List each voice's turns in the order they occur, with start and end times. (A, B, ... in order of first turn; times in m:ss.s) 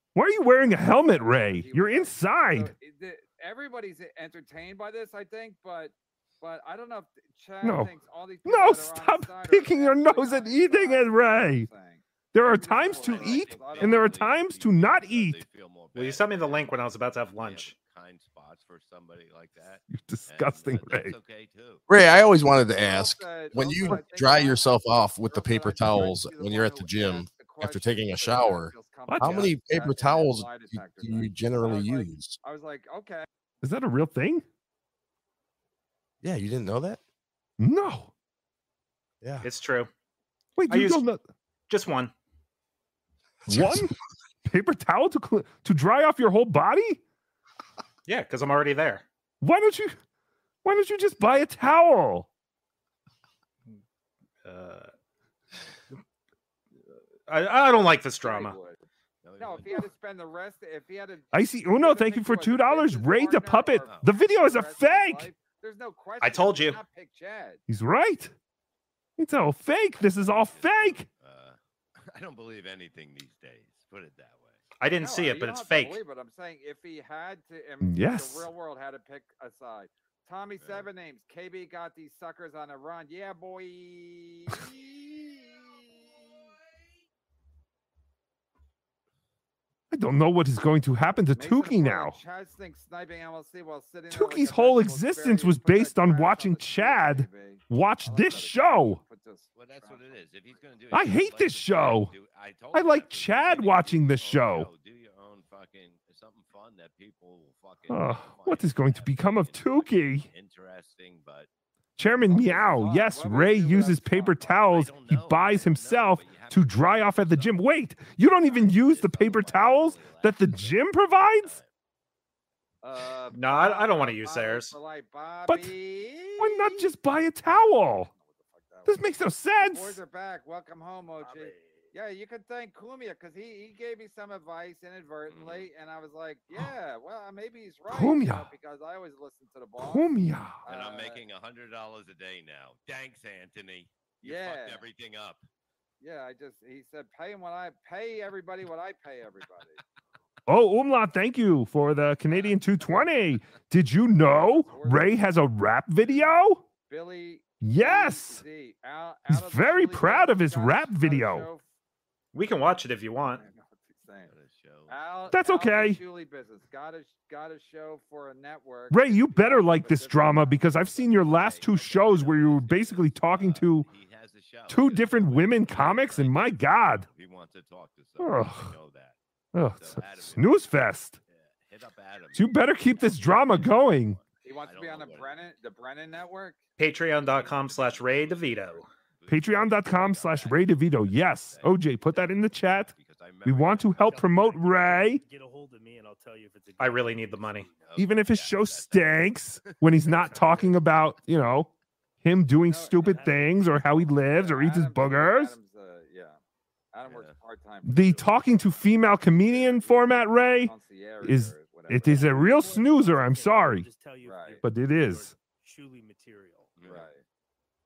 0:00.1-0:02.7 A
0:00.7-0:14.1 B
0:07.6-0:07.9 A
0:08.5-0:11.7 A
0:12.3-0:15.4 A
0:12.7-0:16.7 C
0:15.9-0:17.8 D
0:17.4-0:21.8 C
0:19.9-0:21.2 A
0:21.9-0:32.4 E
0:22.8-0:33.3 B
0:29.1-0:29.5 A
0:33.6-0:34.4 A
0:36.2-0:37.0 E
0:37.6-0:38.1 A
0:39.4-0:39.9 D
0:40.6-0:41.2 A
0:40.7-0:41.0 D
0:41.7-0:42.1 D
0:43.5-0:43.8 E
0:43.5-0:43.9 A
0:44.4-0:47.0 A
0:48.1-0:49.0 D
0:49.4-0:50.0 A
0:50.6-0:52.3 A
0:54.4-0:54.9 D
0:57.3-0:58.6 D
0:58.2-0:58.8 B
0:59.2-0:59.9 C
0:59.4-1:07.6 B
1:01.3-1:05.3 A
1:03.8-1:04.1 C
1:06.2-1:06.8 D
1:07.7-1:08.3 A
1:09.2-1:11.1 A
1:10.1-1:14.6 C
1:14.8-1:16.0 D
1:15.0-1:26.1 B
1:17.8-1:18.5 A
1:20.6-1:20.9 C
1:29.9-1:32.2 A
1:31.4-1:40.2 B
1:34.1-1:39.0 A
1:39.6-1:51.5 C
1:40.9-1:42.1 A
1:42.7-1:44.7 A
1:47.9-1:50.3 A
1:52.0-2:01.6 A
1:52.3-1:54.6 B
1:54.5-1:57.6 C
1:58.2-2:01.7 C
2:02.8-2:06.9 B
2:03.3-2:04.7 D
2:05.5-2:05.7 A
2:06.4-2:08.1 A
2:07.9-2:09.0 B
2:08.9-2:10.0 A
2:09.6-2:20.1 B
2:11.2-2:11.9 F
2:15.3-2:15.7 C
2:17.9-2:18.5 A
2:19.8-2:20.6 A
2:20.6-2:21.2 B
2:20.6-2:25.4 C
2:24.2-2:24.9 B
2:26.0-2:29.8 B
2:30.5-2:36.6 A
2:34.2-2:35.1 B
2:36.0-2:36.4 B
2:36.9-2:41.6 B
2:37.6-2:38.4 A
2:39.3-2:41.5 A
2:42.3-2:43.4 D
2:43.3-2:44.3 B
2:44.2-2:45.0 C
2:44.9-2:51.1 B
2:45.3-2:46.0 A
2:48.9-2:53.9 A
2:50.8-2:59.2 C
2:54.7-2:57.1 A
2:58.2-2:58.8 A
2:59.5-3:01.2 A
2:59.7-3:00.8 C
3:01.3-3:05.4 C
3:02.3-3:04.2 A
3:04.4-3:06.6 B
3:06.8-3:08.9 D
3:07.2-3:14.2 C
3:09.3-3:12.9 A
3:13.4-3:15.2 A
3:14.0-3:17.9 F
3:16.8-3:17.7 D
3:17.7-3:20.4 C
3:18.0-3:21.7 A
3:20.1-3:20.9 F
3:22.2-3:25.6 A
3:22.7-3:23.2 B
3:23.0-3:24.3 F
3:24.3-3:26.4 B
3:26.9-3:32.7 B
3:27.0-3:27.4 C
3:27.8-3:33.9 A
3:32.0-3:36.8 F
3:34.2-3:34.6 B
3:34.6-3:35.3 A
3:36.8-3:37.1 C
3:36.8-3:37.2 B